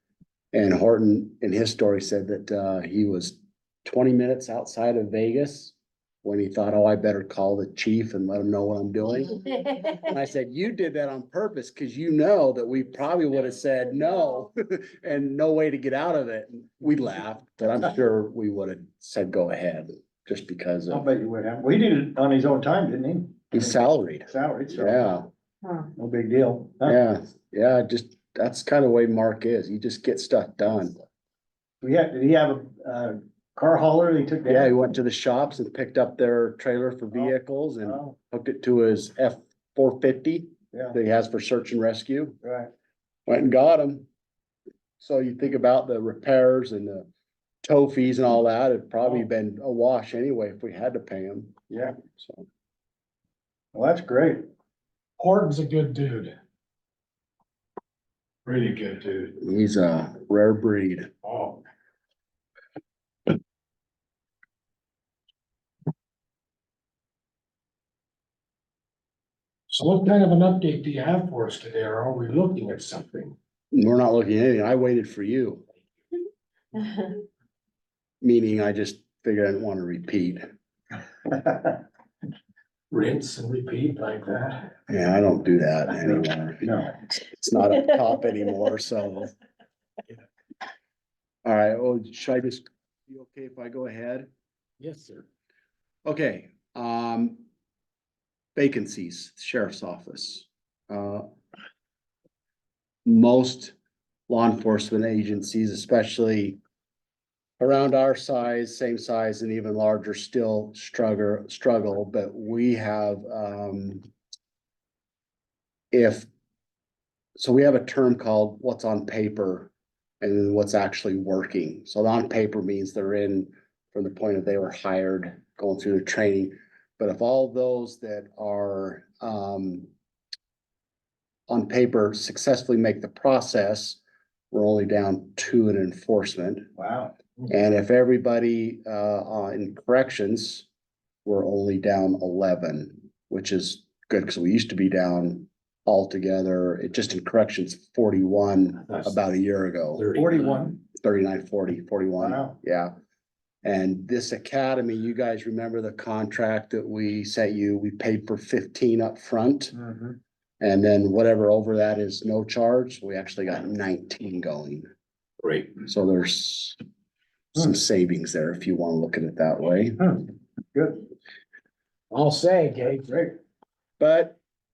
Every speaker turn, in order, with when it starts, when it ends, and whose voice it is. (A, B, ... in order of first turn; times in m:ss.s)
0:00.5-0:09.4 A
0:09.3-0:10.0 B
0:10.0-0:21.1 A
0:13.9-0:14.5 B
0:20.9-0:25.0 C
0:23.5-0:25.3 A
0:25.6-0:25.9 B
0:26.0-0:27.0 C
0:26.8-0:31.0 A
0:31.8-0:34.7 C
0:34.4-0:42.4 A
0:37.9-0:38.2 C
0:42.4-0:42.7 C
0:43.3-0:44.1 A
0:45.0-0:47.1 A
0:47.6-0:51.5 A
0:51.7-0:52.0 C
0:52.2-0:52.4 A
0:53.7-0:54.4 C
0:55.2-0:56.3 D
0:58.4-0:59.4 D
0:59.4-1:01.1 A
1:01.2-1:01.6 D
1:09.7-1:13.4 D
1:13.7-1:15.6 A
1:16.8-1:17.1 B
1:18.2-1:20.5 A
1:21.3-1:21.8 C
1:22.9-1:24.7 D
1:24.9-1:26.7 A
1:26.6-1:27.0 C
1:27.2-1:29.3 A
1:31.4-1:34.3 A
1:34.8-1:35.2 D
1:36.0-1:37.4 A
1:38.6-1:41.2 A
1:43.0-1:43.8 A
1:44.3-1:46.6 A
1:47.6-1:54.0 A
1:55.9-1:56.3 A
1:57.4-2:09.9 A
2:11.5-2:14.0 A
2:14.5-2:16.7 A
2:16.8-2:17.1 C
2:17.5-2:20.7 A
2:21.2-2:30.2 A
2:30.0-2:30.5 D
2:30.1-2:30.8 C
2:30.9-2:32.9 A
2:32.2-2:32.6 C
2:33.6-2:39.8 A
2:39.8-2:40.2 C
2:40.6-2:44.9 A
2:45.4-2:45.7 D
2:45.8-2:46.8 A
2:47.6-2:50.0 A
2:50.0-2:51.1 C
2:52.1-2:53.1 D
2:52.9-2:53.4 C
2:54.0-2:54.4 A